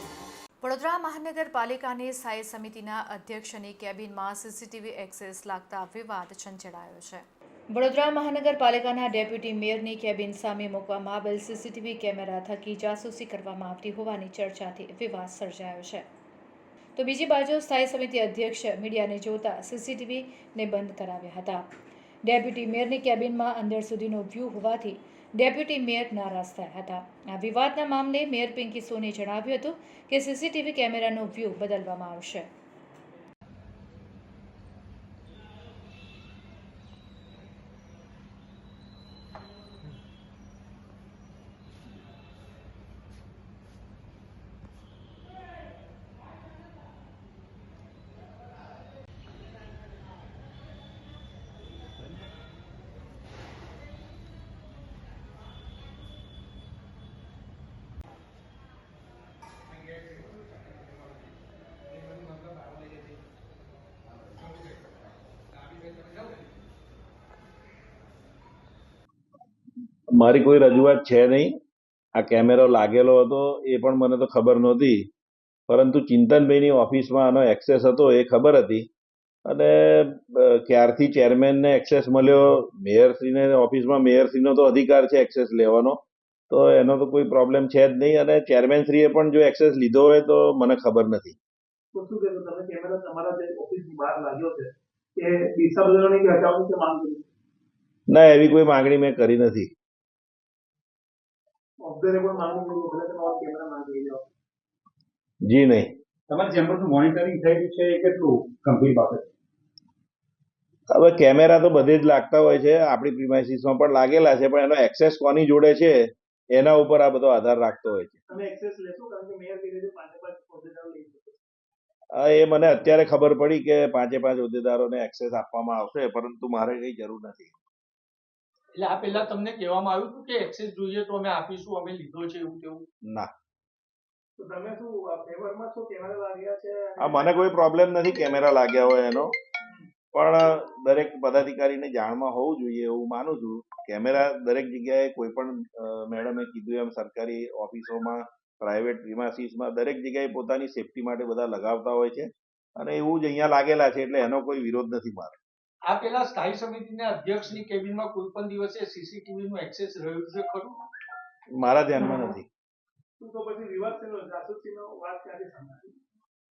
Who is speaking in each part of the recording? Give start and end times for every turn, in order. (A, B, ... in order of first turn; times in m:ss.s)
0:00.6-0:16.1 A
0:17.0-0:21.7 A
0:22.2-0:32.5 A
1:10.1-1:11.6 B
1:12.2-1:15.1 B
1:15.7-1:18.9 B
1:19.5-1:31.4 B
1:31.9-1:37.2 C
1:38.1-1:39.7 B
1:41.8-1:44.2 C
1:45.4-1:45.9 B
1:46.3-1:49.3 D
1:50.9-1:58.2 B
1:58.3-2:01.4 C
2:02.1-2:07.6 B
2:08.8-2:12.9 E
2:13.0-2:13.3 B
2:14.4-2:17.3 C
2:17.0-2:19.3 B
2:20.1-2:35.4 B
2:35.8-2:40.8 E
2:41.5-2:42.5 B
2:43.2-2:46.0 C